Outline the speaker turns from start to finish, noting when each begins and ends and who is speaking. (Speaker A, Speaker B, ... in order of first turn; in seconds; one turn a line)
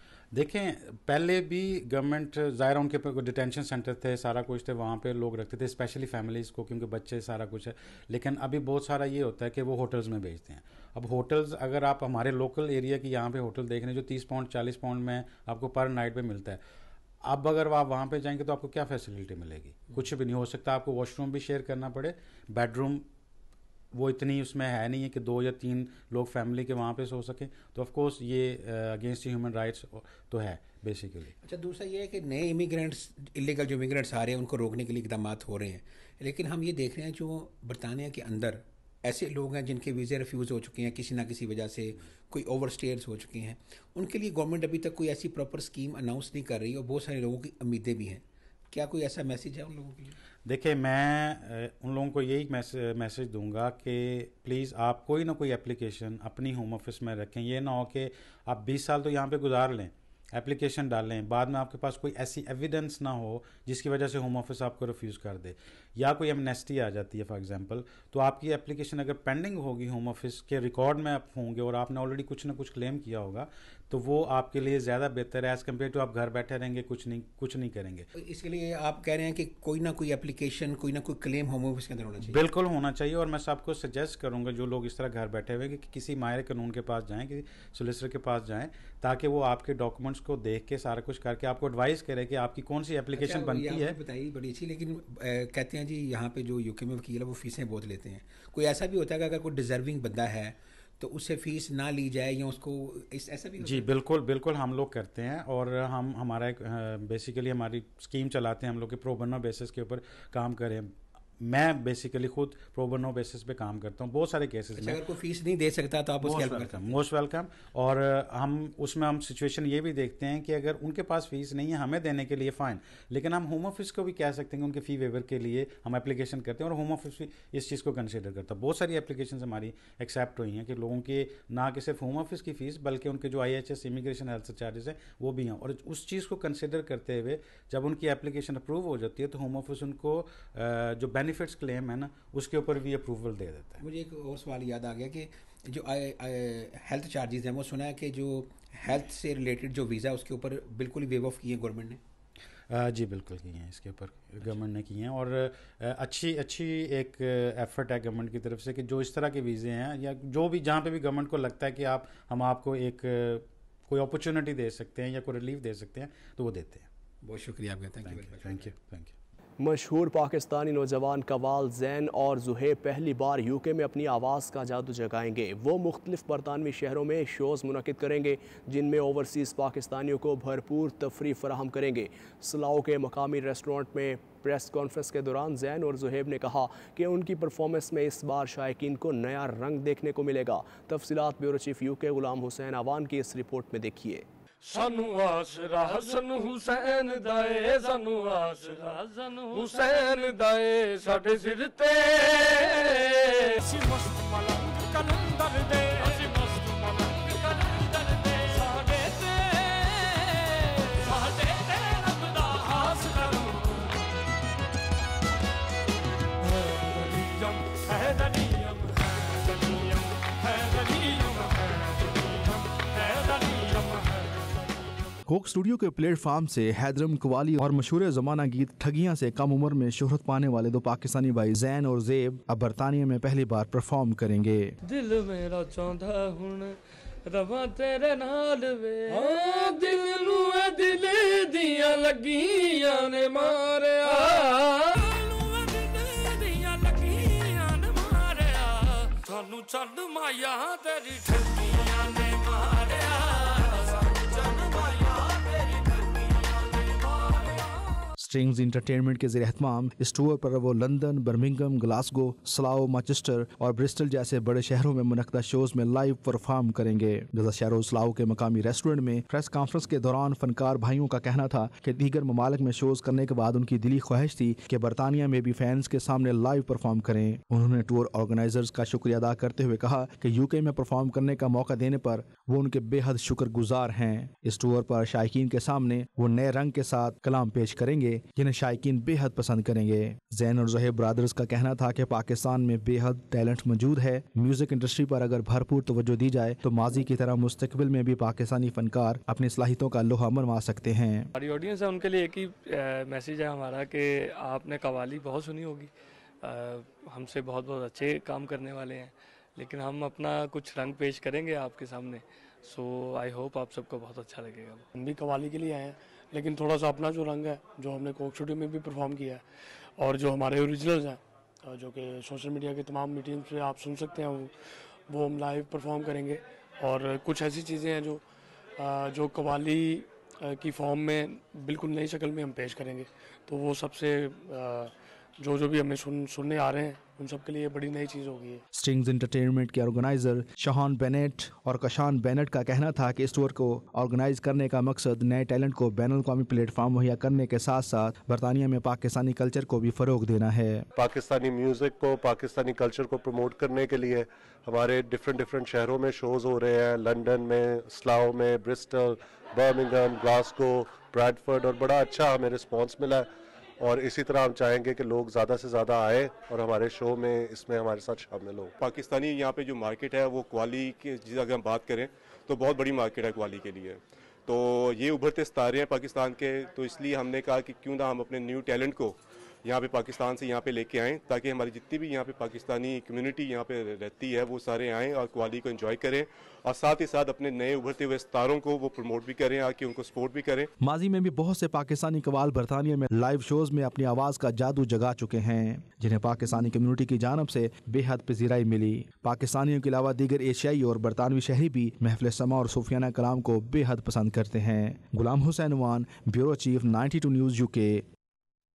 Speaker A: 0.3-16.6
Speaker A: 17.2-23.0
Speaker A: 23.9-31.3
Speaker B: 31.4-50.1
Speaker A: 50.4-78.1
Speaker B: 78.1-82.4
Speaker A: 82.3-94.0
Speaker B: 93.1-103.9
Speaker A: 103.6-115.0
Speaker B: 114.8-116.9
Speaker A: 116.2-143.8
Speaker B: 143.8-152.0
Speaker A: 152.7-166.8
Speaker B: 167.2-168.7
Speaker A: 168.0-169.1
Speaker C: 169.6-194.2
Speaker D: 194.7-213.9
Speaker D: 216.4-224.5
Speaker E: 225.3-234.7
Speaker D: 234.8-236.7
Speaker D: 237.3-257.6
Speaker E: 258.2-301.3
Speaker D: 301.3-305.9
Speaker D: 306.4-314.9
Speaker F: 314.9-319.4
Speaker F: 320.0-324.5
Speaker F: 325.1-328.2
Speaker F: 328.8-338.6
Speaker E: 338.7-350.9
Speaker G: 350.9-363.2
Speaker G: 363.8-368.7
Speaker H: 368.7-390.7
Speaker E: 390.8-408.0